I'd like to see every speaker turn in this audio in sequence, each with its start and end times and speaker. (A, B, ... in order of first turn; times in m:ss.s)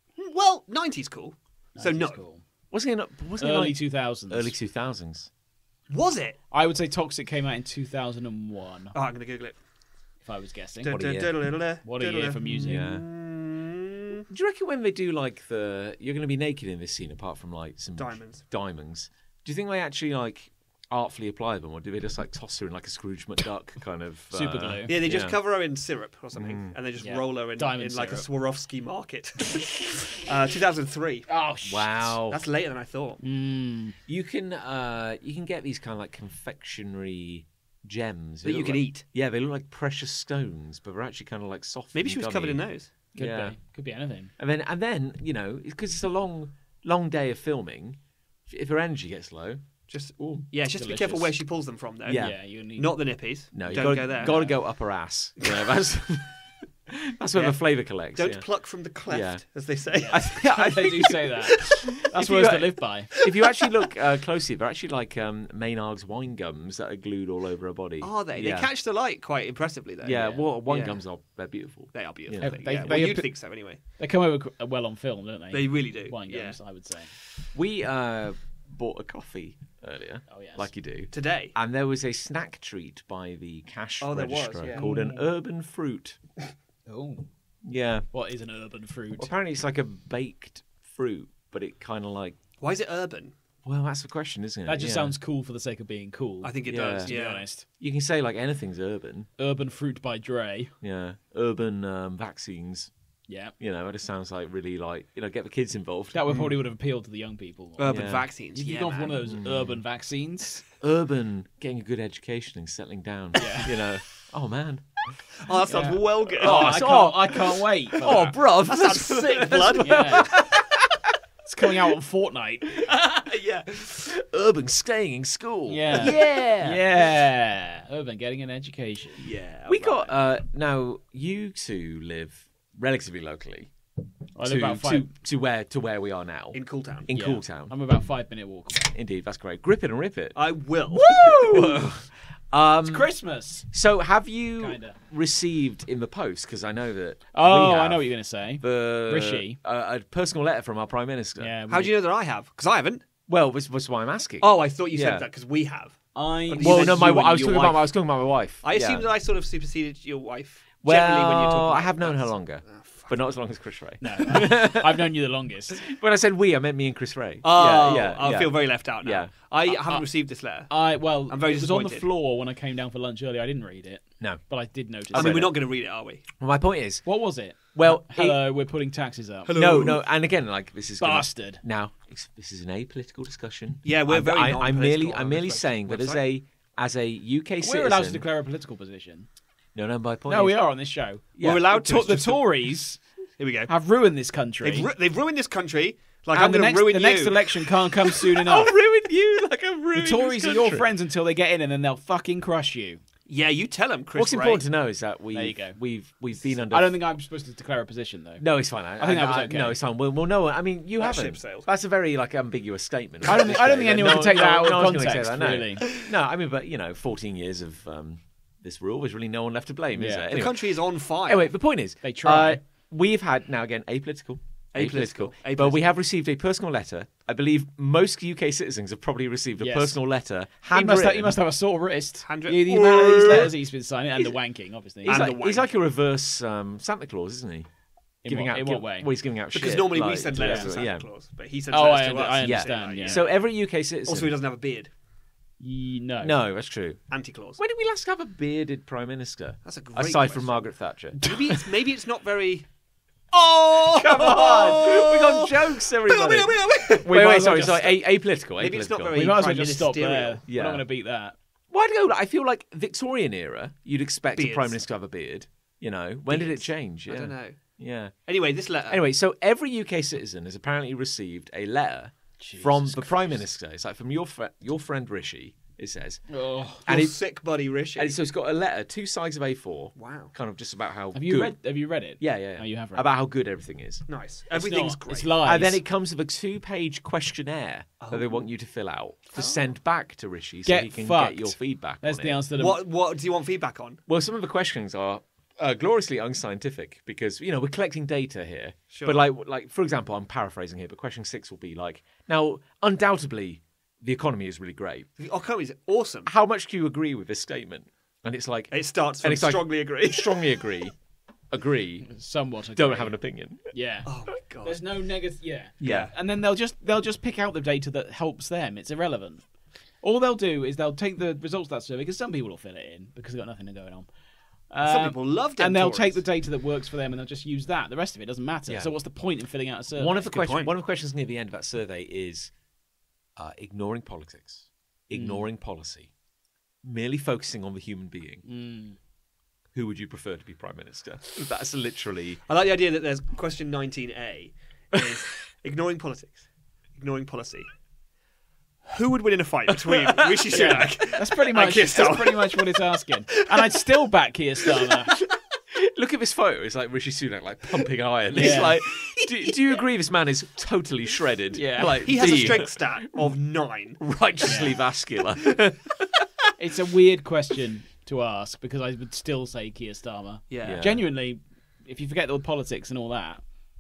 0:00.2-0:02.2 A
0:01.8-0:02.4 B
0:02.7-0:05.3 C
0:03.4-0:04.5 B
0:05.9-0:06.4 A
0:06.5-0:09.0 B
0:08.9-0:09.6 A
0:10.2-0:11.0 B
0:10.8-0:14.2 A
0:10.9-0:11.3 C
0:11.8-0:12.9 B
0:12.6-0:13.0 C
0:14.3-0:25.4 C
0:18.0-0:18.4 A
0:24.3-0:25.0 B
0:24.9-0:31.3 A
0:26.3-0:26.8 C
0:27.0-0:28.3 B
0:31.3-0:32.2 B
0:31.6-0:32.4 C
0:32.3-0:33.2 A
0:33.2-0:34.0 B
0:34.1-0:43.6 C
0:38.4-0:39.0 A
0:41.9-0:42.9 A
0:43.2-0:44.3 B
0:44.4-0:49.6 C
0:49.9-0:54.5 A
0:50.2-0:50.4 C
0:50.7-0:51.4 B
0:52.1-0:52.4 C
0:52.1-0:53.0 B
0:53.5-0:58.4 C
0:53.7-0:54.6 B
0:57.4-1:00.4 A
0:59.1-0:59.4 C
1:00.0-1:03.1 B
1:00.1-1:08.7 C
1:03.2-1:03.7 A
1:08.0-1:11.0 A
1:10.0-1:13.0 C
1:10.2-1:10.4 B
1:11.9-1:13.8 A
1:12.4-1:17.1 B
1:15.5-1:16.6 A
1:17.5-1:26.2 C
1:20.3-1:20.7 B
1:21.1-1:21.6 A
1:24.0-1:24.8 A
1:24.7-1:25.3 B
1:26.9-1:27.3 B
1:27.6-1:28.1 C
1:28.1-1:29.3 B
1:29.2-1:32.4 C
1:32.6-1:33.4 A
1:33.6-1:35.2 C
1:34.7-1:37.7 B
1:36.4-1:37.5 A
1:36.7-1:37.2 C
1:37.7-1:39.3 C
1:39.4-1:40.7 B
1:40.8-1:42.9 C
1:43.3-1:43.5 B
1:43.6-1:46.4 C
1:46.1-1:48.0 B
1:47.8-1:49.2 A
1:47.9-1:48.3 C
1:48.6-1:50.6 B
1:49.3-1:49.8 C
1:50.8-1:55.2 C
1:53.4-1:53.8 B
1:55.4-1:56.8 A
1:55.7-1:58.4 B
1:56.4-2:01.0 C
1:58.0-2:00.4 A
1:59.8-2:00.3 B
2:01.4-2:02.9 B
2:02.9-2:04.2 A
2:04.1-2:06.8 C
2:05.7-2:09.3 B
2:09.2-2:10.1 A
2:09.7-2:13.7 C
2:14.4-2:15.1 B
2:14.4-2:17.7 C
2:16.5-2:17.1 A
2:17.1-2:18.9 B
2:18.8-2:20.4 C
2:20.4-2:21.1 A
2:20.9-2:23.1 C
2:21.0-2:21.9 B
2:22.8-2:23.7 B
2:23.7-2:31.5 C
2:24.6-2:25.0 B
2:27.3-2:29.6 B
2:31.4-2:31.9 B
2:31.7-2:33.0 A
2:33.3-2:35.3 C
2:34.4-2:37.9 A
2:36.1-2:37.6 B
2:36.6-2:39.1 C
2:38.6-2:43.2 A
2:40.8-2:45.1 C
2:44.0-2:45.8 B
2:45.8-2:49.3 C
2:47.4-2:52.1 A
2:49.7-2:50.0 B
2:50.7-2:55.5 B
2:55.1-2:55.6 C
2:55.1-2:56.2 A
2:56.4-2:57.1 C
2:57.0-2:59.6 B
2:57.7-2:58.4 C
2:59.5-3:00.0 A
2:59.5-3:08.2 C
3:01.0-3:01.6 B
3:03.8-3:06.2 A
3:07.6-3:09.3 B
3:09.7-3:10.6 C
3:10.3-3:13.0 B
3:11.4-3:11.6 C
3:11.4-3:12.5 A
3:13.4-3:13.7 A
3:13.7-3:14.9 B
3:14.6-3:17.7 A
3:16.3-3:18.7 B
3:18.4-3:20.9 C
3:20.0-3:23.0 B
3:23.3-3:24.6 A
3:24.2-3:27.0 C
3:25.3-3:25.8 B
3:26.7-3:29.8 B
3:28.4-3:51.4 C
3:31.0-3:31.7 A
3:33.3-3:35.9 B
3:40.0-3:40.3 B
3:40.3-3:41.6 A
3:42.0-3:42.6 B
3:44.7-3:45.9 A
3:49.6-3:50.0 B
3:50.7-3:55.4 B
3:52.3-3:53.5 A
3:52.8-3:53.5 C
3:55.0-3:57.7 C
3:55.1-3:55.8 A
3:58.2-3:59.1 B
3:58.3-4:01.0 C
3:59.5-4:03.4 A
4:00.3-4:00.7 B
4:01.7-4:03.2 B
4:02.4-4:04.3 C
4:04.1-4:04.9 A
4:05.6-4:06.4 B
4:06.2-4:07.0 C
4:07.1-4:07.6 A
4:07.6-4:11.2 C
4:09.6-4:12.7 A
4:11.2-4:11.7 B
4:13.3-4:18.0 A
4:14.0-4:14.9 B
4:14.0-4:19.2 C
4:17.0-4:17.9 B
4:18.6-4:20.4 A
4:19.1-4:21.4 B
4:20.5-4:20.8 C
4:21.7-4:28.2 C
4:24.4-4:24.8 A
4:26.3-4:27.6 A
4:28.3-4:29.0 A
4:28.9-4:37.2 C
4:32.4-4:33.4 B
4:36.3-4:36.9 B
4:36.9-4:38.2 A
4:38.0-4:41.6 C
4:40.0-4:40.3 A
4:41.1-4:43.1 B
4:42.2-4:44.0 C
4:44.1-4:45.4 A
4:44.5-4:45.8 B
4:45.4-4:52.4 C
4:48.0-4:48.5 A
4:49.3-4:49.7 A
4:50.7-4:52.8 B
4:52.6-4:54.0 A
4:54.1-5:05.1 C
4:58.9-4:59.3 A
5:05.2-5:06.3 A
5:06.3-5:11.0 C
5:08.7-5:10.4 A
5:11.5-5:12.1 C
5:12.1-5:13.2 B
5:12.8-5:13.7 C
5:13.7-5:14.1 B
5:14.1-5:14.8 A
5:14.6-5:19.4 B
5:15.8-5:16.1 A
5:15.8-5:16.1 C
5:20.0-5:24.1 B
5:24.7-5:30.3 B
5:24.8-5:26.2 A
5:28.7-5:28.9 C
5:30.0-5:32.5 C
5:30.3-5:30.7 A
5:33.4-5:36.1 C
5:35.1-5:35.5 B
5:36.8-5:38.4 C
5:38.4-5:39.0 B
5:39.7-5:42.4 C
5:42.5-5:46.4 A
5:47.0-5:47.7 A
5:48.9-5:52.8 A
5:49.9-5:50.4 C
5:50.5-5:55.1 B
5:53.3-5:53.7 A
5:55.7-6:03.3 C
5:58.3-5:58.8 B
5:58.4-5:58.6 A
6:01.5-6:02.6 B
6:02.0-6:04.0 A
6:04.0-6:06.2 C
6:04.4-6:04.8 B
6:06.6-6:13.4 B
6:10.5-6:10.8 A
6:10.6-6:11.0 C